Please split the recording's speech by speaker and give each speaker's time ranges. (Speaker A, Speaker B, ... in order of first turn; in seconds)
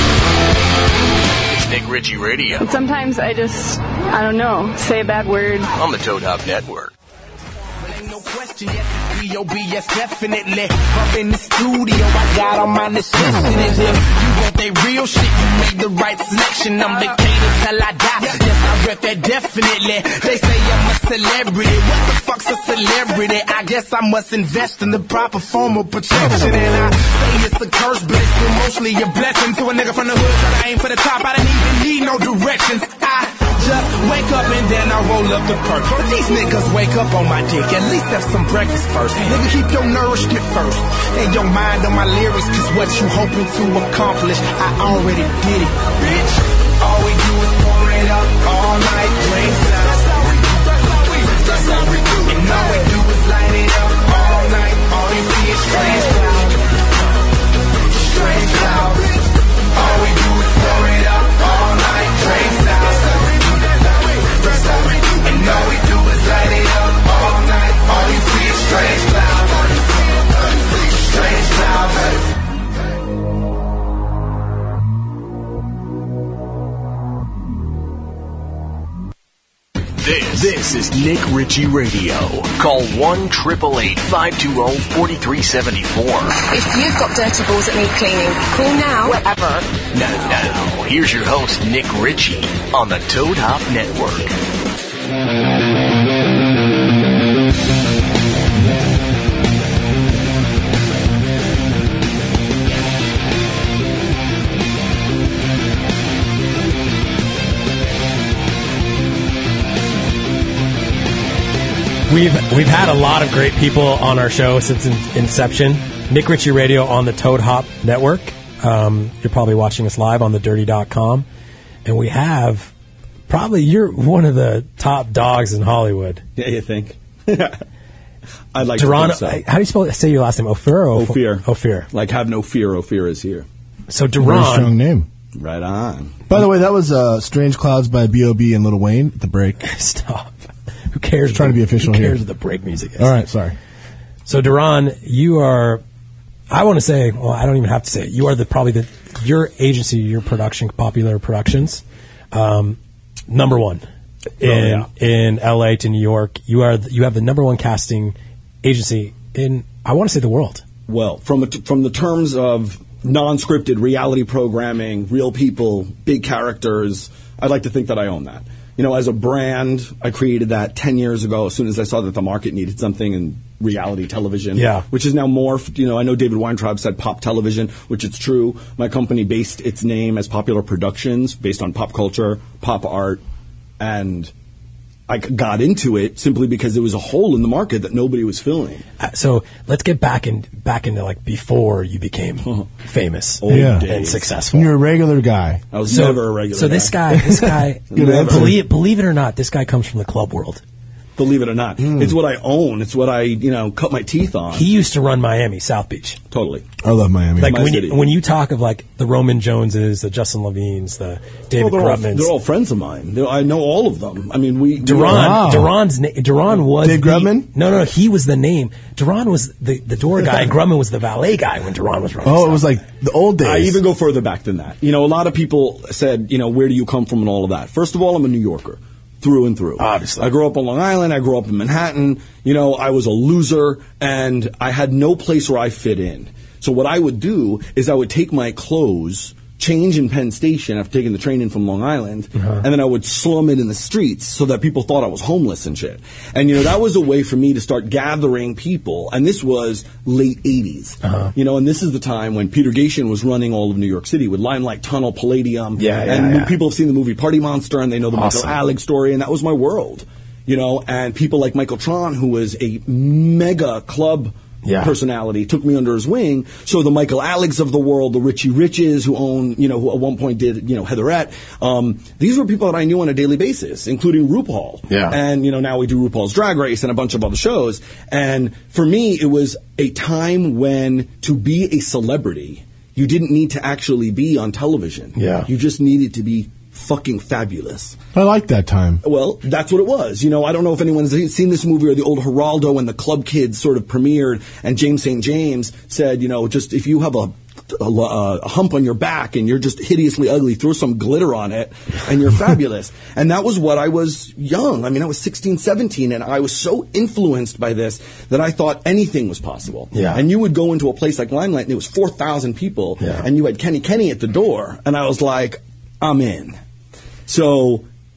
Speaker A: 1.5-2.7, 5.7-6.9, 80.0-86.3, 89.9-94.3
Speaker B: 2.6-5.7
Speaker C: 7.8-56.6, 58.0-59.1, 59.7-72.2
Speaker D: 86.4-89.6
Speaker E: 112.1-121.2, 121.8-122.7, 123.3-126.2, 128.7-131.9, 133.9-134.7, 139.6-140.3, 140.9-143.2, 144.2-145.8, 146.5-152.8, 153.3-153.8, 154.4-160.6, 174.5-174.8, 189.0-194.7, 195.8-200.6, 204.5-206.2, 207.4-212.3, 214.8-222.7, 229.8-230.3, 242.4-242.6, 251.0-251.3, 255.8-256.6, 258.1-258.6, 264.6-265.0, 274.9-275.2, 285.1-285.5, 309.9-310.2, 313.0-313.3
Speaker F: 126.4-127.6, 128.5-129.4, 130.9-133.4, 135.3-136.4, 154.4-154.9, 160.9-183.2, 183.8-184.3, 185.1-188.8, 192.4-192.7, 193.4-194.3, 195.7-197.0, 197.9-198.6, 201.2-204.7, 206.3-206.7, 207.4-208.0, 211.5-215.4, 223.4-288.0, 289.0-316.6, 317.3-317.9
Speaker G: 134.2-135.1, 136.3-139.6, 141.3-142.2, 143.0-143.5, 193.5-193.9, 194.5-195.6, 197.9-198.6, 201.8-202.1, 206.8-207.6, 215.0-215.7, 216.8-217.5, 222.2-223.8, 288.1-289.0